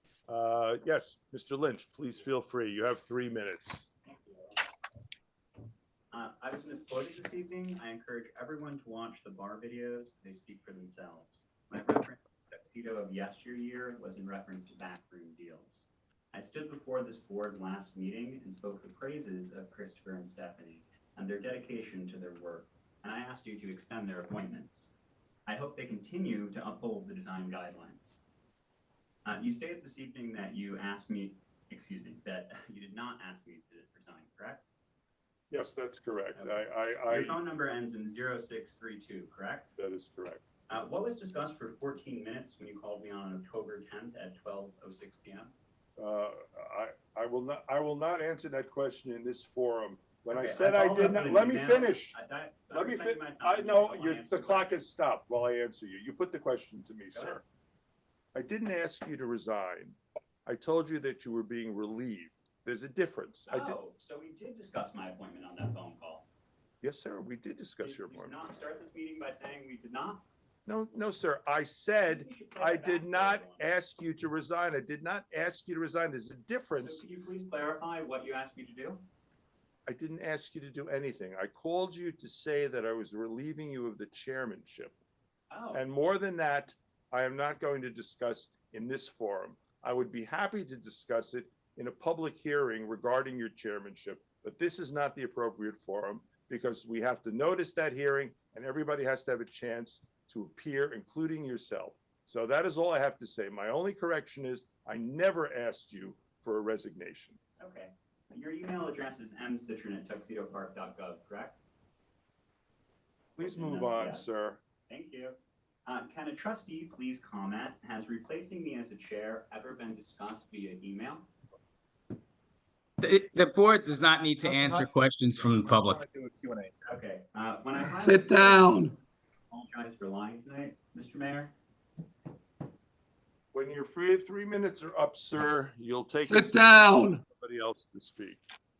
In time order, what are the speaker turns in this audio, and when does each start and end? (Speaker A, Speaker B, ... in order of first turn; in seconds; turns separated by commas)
Speaker A: 0.3-3.9, Speaker B: 4.3-4.6, Speaker B: 6.1-28.2, Speaker B: 29.2-34.6, Speaker A: 35.5-37.4, Speaker B: 36.3-39.7, Speaker A: 39.8-40.4, Speaker B: 40.7-45.5, Speaker A: 46.0-52.2, Speaker B: 50.3-54.8, Speaker A: 52.7-57.4, Speaker B: 57.1-57.4, Speaker A: 58.3-63.8, Speaker B: 63.5-66.3, Speaker A: 66.8-68.3, Speaker B: 67.8-70.2, Speaker A: 70.7-77.0, Speaker B: 72.0-73.7, Speaker B: 76.8-79.0, Speaker A: 79.8-85.0, Speaker B: 85.5-85.8, Speaker A: 85.7-107.4, Speaker B: 107.6-111.6, Speaker A: 113.4-114.6, Speaker B: 113.4-121.3, Speaker C: 123.0-126.0, Speaker D: 124.4-126.7, Speaker B: 126.9-128.9, Speaker E: 128.0-128.9, Speaker B: 129.5-131.5, Speaker A: 133.5-136.7, Speaker E: 136.2-137.2, Speaker A: 137.2-138.4